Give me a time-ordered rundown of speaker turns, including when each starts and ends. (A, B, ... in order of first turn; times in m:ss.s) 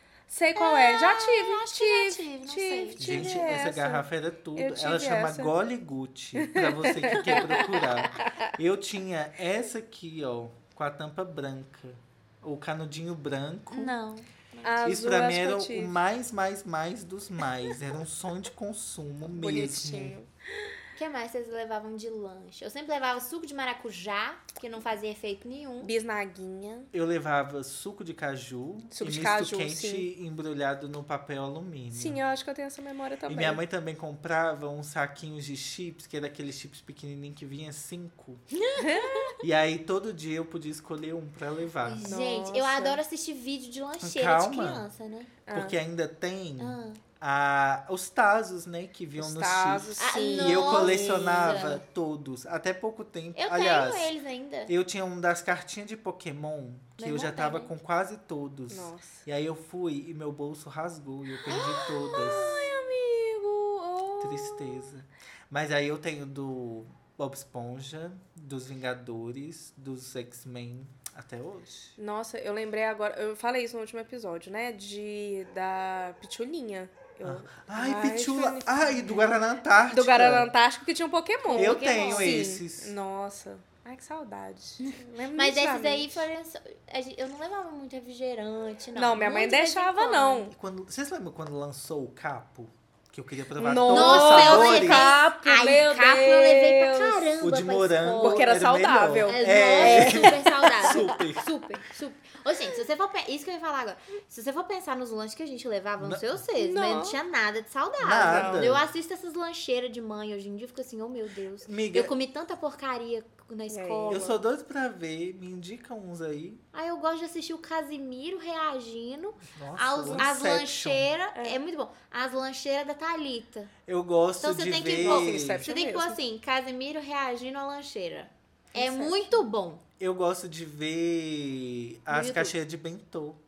0:00.3-0:05.5 A
0:00.6-0:03.4 B
0:03.0-0:13.9 C
0:06.4-0:08.5 A
0:13.7-0:14.9 B
0:14.6-0:16.0 A
0:14.8-0:20.2 C
0:19.3-0:20.3 A
0:21.0-0:25.9 B
0:25.8-0:26.9 A
0:26.9-0:32.2 C
0:28.9-0:30.1 A
0:31.9-0:33.6 A
0:33.3-0:38.4 C
0:38.5-0:39.4 B
0:38.8-0:39.3 A
0:39.4-0:42.1 C
0:41.8-0:45.3 B
0:42.0-0:43.0 A
0:44.0-0:44.9 C
0:45.5-0:45.8 A
0:45.5-0:54.1 C
0:46.6-0:47.0 B
0:49.2-0:51.5 A
0:50.0-0:51.8 B
0:53.4-0:54.7 B
0:54.7-1:02.7 C
0:57.0-0:57.7 B
0:58.7-0:59.2 A
1:01.5-1:04.9 A
1:04.2-1:12.0 C
1:12.0-1:19.2 A
1:17.2-1:20.5 C
1:19.9-1:26.3 A
1:21.4-1:22.5 B
1:21.5-1:23.0 C
1:24.8-1:30.5 B
1:29.0-1:30.5 A
1:30.5-1:35.1 C
1:33.6-1:37.3 A
1:33.9-1:38.5 B
1:37.4-1:41.5 C
1:38.2-1:41.2 A
1:39.3-1:54.3 B
1:46.0-1:46.4 C
1:46.6-1:47.2 A
1:48.0-1:48.9 C
1:48.2-1:48.7 A
1:51.6-1:52.1 C
1:53.7-1:54.4 A
1:54.1-1:56.6 C
1:56.7-2:03.7 B
1:59.4-2:01.1 C
2:03.9-2:05.7 C
2:04.4-2:09.8 B
2:05.0-2:06.2 A
2:08.7-2:09.4 A
2:10.0-2:13.4 C
2:12.1-2:12.5 B